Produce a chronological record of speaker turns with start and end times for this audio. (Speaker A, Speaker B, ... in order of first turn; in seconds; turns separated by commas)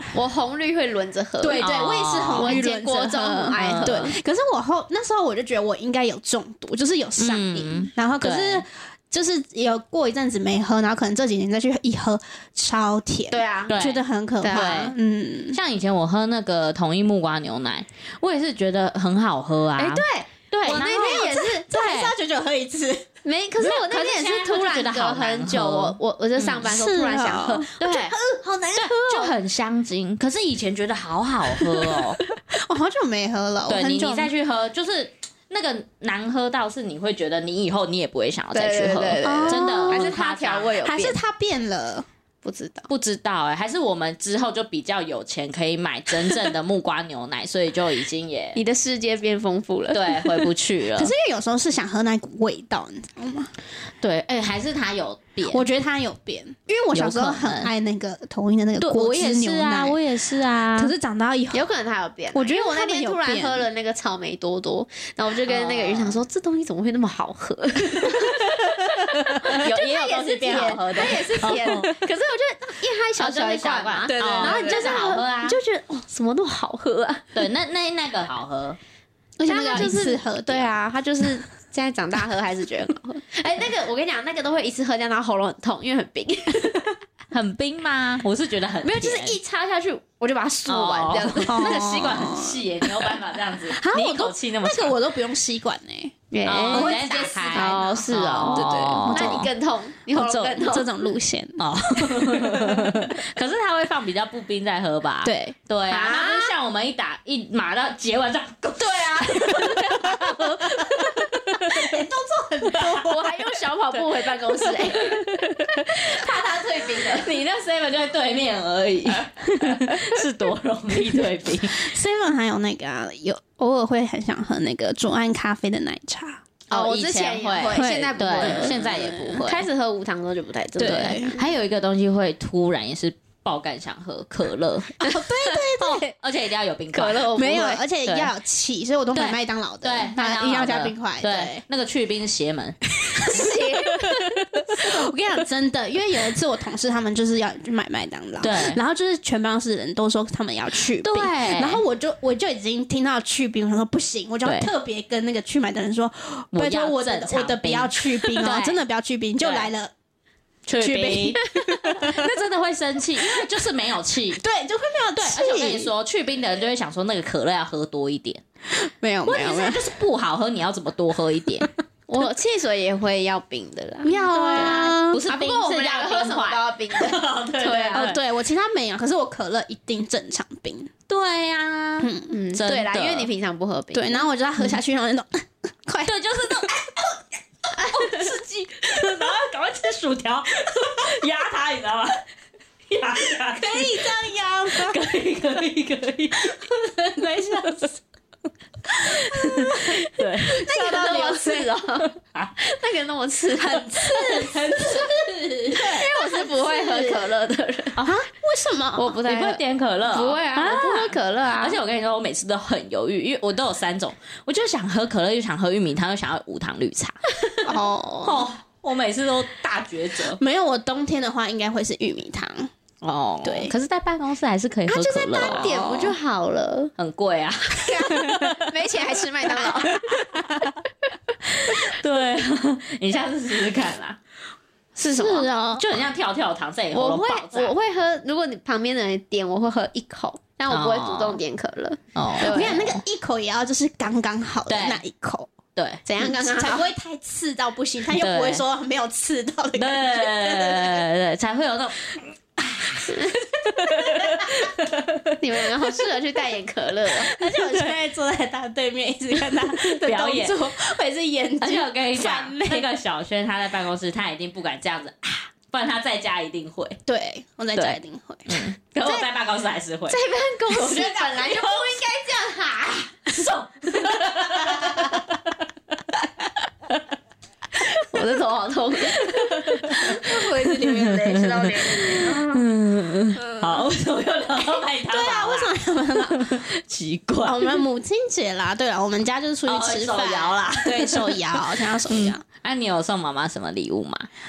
Speaker A: 0.1-1.7, Speaker B: 1.4-15.6, Speaker C: 1.6-2.6, Speaker A: 2.3-4.2, Speaker C: 3.5-4.1, Speaker C: 7.2-8.6, Speaker A: 13.3-13.7, Speaker C: 13.7-14.9, Speaker A: 14.4-14.8, Speaker C: 15.5-22.1, Speaker A: 19.8-21.6, Speaker B: 20.7-23.1, Speaker A: 23.2-27.8, Speaker C: 23.6-26.7, Speaker B: 26.6-29.3, Speaker C: 27.8-28.2, Speaker C: 28.8-32.2, Speaker B: 31.6-34.3, Speaker C: 33.7-40.8, Speaker A: 38.5-41.2, Speaker B: 39.2-40.2, Speaker B: 40.8-42.1, Speaker A: 42.4-42.9, Speaker C: 42.9-48.6, Speaker A: 48.5-50.5, Speaker C: 49.9-51.1, Speaker B: 51.0-53.5, Speaker C: 54.0-55.6, Speaker B: 55.5-60.0, Speaker C: 56.9-57.7, Speaker C: 58.8-60.9, Speaker B: 60.7-61.7, Speaker A: 61.5-77.5, Speaker B: 62.3-63.7, Speaker C: 65.5-66.2, Speaker C: 69.3-72.0, Speaker C: 73.2-75.6, Speaker B: 74.3-74.9, Speaker C: 77.3-78.8, Speaker B: 79.4-80.7, Speaker A: 79.5-87.0, Speaker C: 87.3-89.4, Speaker A: 88.8-91.8, Speaker C: 90.7-95.0, Speaker B: 91.4-99.5, Speaker A: 96.3-100.9, Speaker C: 96.5-99.5, Speaker C: 100.2-100.6, Speaker B: 100.2-103.2, Speaker C: 101.6-112.1, Speaker B: 105.2-105.6, Speaker A: 105.9-106.5, Speaker A: 108.8-110.0, Speaker B: 109.7-113.3, Speaker C: 112.7-113.1, Speaker A: 112.8-117.3, Speaker C: 114.5-116.2, Speaker C: 116.9-121.9, Speaker B: 121.1-126.4, Speaker C: 126.7-129.7, Speaker A: 126.7-128.8, Speaker B: 127.7-129.4, Speaker A: 129.4-131.4, Speaker B: 130.8-131.4, Speaker C: 130.8-135.0, Speaker B: 135.0-136.1, Speaker C: 135.8-137.3, Speaker A: 136.9-137.8, Speaker B: 137.3-141.6, Speaker C: 138.1-138.3, Speaker C: 139.1-142.8, Speaker B: 143.0-159.9, Speaker A: 143.3-144.3, Speaker C: 148.4-148.8, Speaker C: 151.0-151.8, Speaker C: 154.4-154.7, Speaker C: 156.5-158.8, Speaker C: 159.4-159.7, Speaker C: 160.7-164.4, Speaker B: 160.8-162.3, Speaker B: 164.4-165.9, Speaker C: 165.2-168.4, Speaker B: 168.7-169.9, Speaker C: 169.3-171.7, Speaker A: 172.1-178.1, Speaker B: 174.0-175.2, Speaker C: 174.2-178.2, Speaker B: 177.9-180.9, Speaker C: 181.1-183.3, Speaker B: 182.0-182.3, Speaker A: 182.3-184.3, Speaker B: 183.9-187.0, Speaker C: 186.1-186.8, Speaker C: 187.8-192.2, Speaker B: 187.8-189.3, Speaker C: 192.9-194.2, Speaker B: 193.5-195.0, Speaker C: 194.7-197.9, Speaker B: 196.4-197.9, Speaker C: 198.9-200.7, Speaker B: 198.9-201.7, Speaker A: 200.6-204.5, Speaker C: 202.2-202.6, Speaker B: 203.6-207.3, Speaker C: 204.0-205.9, Speaker A: 205.8-208.0, Speaker C: 208.0-208.2, Speaker B: 208.0-209.2, Speaker A: 209.0-211.8, Speaker C: 209.2-217.2, Speaker B: 217.7-218.5, Speaker C: 218.2-220.4, Speaker B: 220.4-222.7, Speaker C: 223.0-225.8, Speaker B: 223.4-223.7, Speaker A: 224.9-226.9, Speaker B: 225.4-226.2, Speaker C: 227.0-228.6, Speaker A: 227.8-230.3, Speaker C: 231.5-234.2, Speaker C: 235.0-237.7, Speaker A: 235.0-235.6, Speaker B: 235.2-235.8, Speaker A: 236.9-242.9, Speaker C: 240.7-241.4, Speaker C: 242.2-243.0, Speaker B: 242.4-245.5, Speaker C: 244.7-245.0, Speaker C: 245.8-246.0, Speaker A: 246.1-246.9, Speaker B: 246.2-251.0, Speaker C: 248.2-248.6, Speaker C: 249.8-255.4, Speaker B: 253.6-254.7, Speaker A: 255.4-257.4, Speaker B: 257.1-262.9, Speaker C: 257.5-258.0, Speaker C: 259.6-260.7, Speaker C: 261.6-267.0, Speaker B: 267.1-268.6, Speaker C: 267.8-272.0, Speaker A: 270.1-273.5, Speaker C: 273.3-275.5, Speaker A: 277.9-280.0, Speaker C: 279.2-287.8, Speaker B: 279.9-282.5, Speaker A: 281.9-282.4, Speaker B: 284.8-286.7, Speaker B: 287.4-292.4, Speaker C: 289.7-294.3